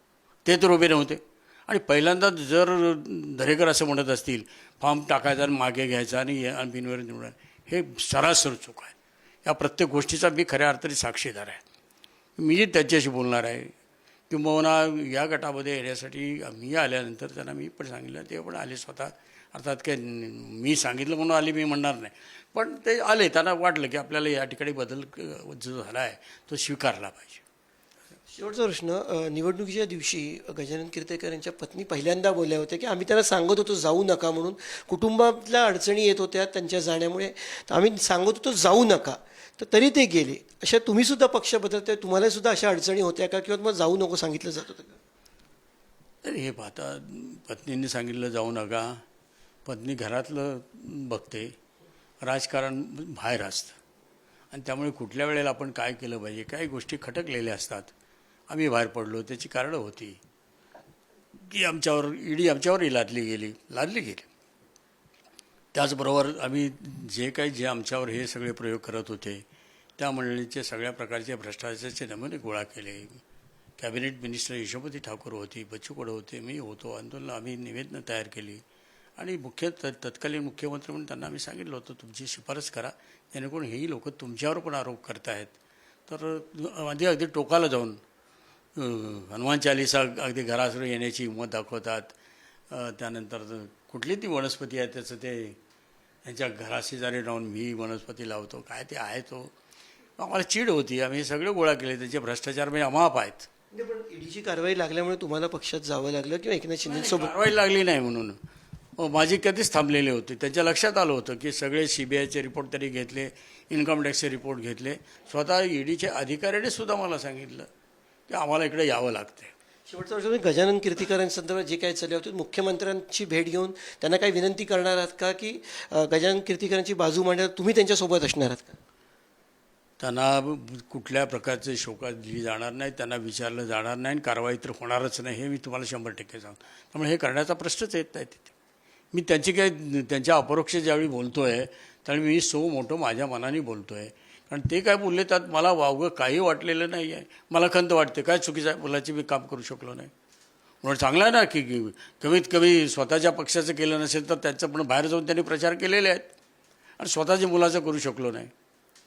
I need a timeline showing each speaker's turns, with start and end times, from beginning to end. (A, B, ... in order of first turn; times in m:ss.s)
0:00.4-0:08.9 A
0:09.4-0:11.6 A
0:12.4-0:13.7 A
0:14.3-0:27.4 A
0:28.3-0:45.0 B
0:46.2-0:49.0 A
0:49.6-0:51.5 A
0:52.2-0:53.8 A
0:54.5-0:57.9 A
0:58.5-1:00.2 A
1:01.3-1:04.3 A
1:05.7-1:09.4 A
1:10.0-1:13.2 A
1:13.8-1:18.6 A
1:19.2-1:25.5 A
1:26.1-1:28.0 A
1:28.7-1:32.1 A
1:32.7-1:35.6 A
1:36.2-1:39.5 A
1:40.2-1:43.5 A
1:43.7-1:47.3 B
1:46.8-1:48.4 A
1:49.0-1:57.7 A
1:58.3-1:59.5 A
1:59.9-2:08.8 B
2:10.0-2:18.5 A
2:19.1-2:30.1 A
2:30.8-2:36.3 A
2:37.0-2:38.5 A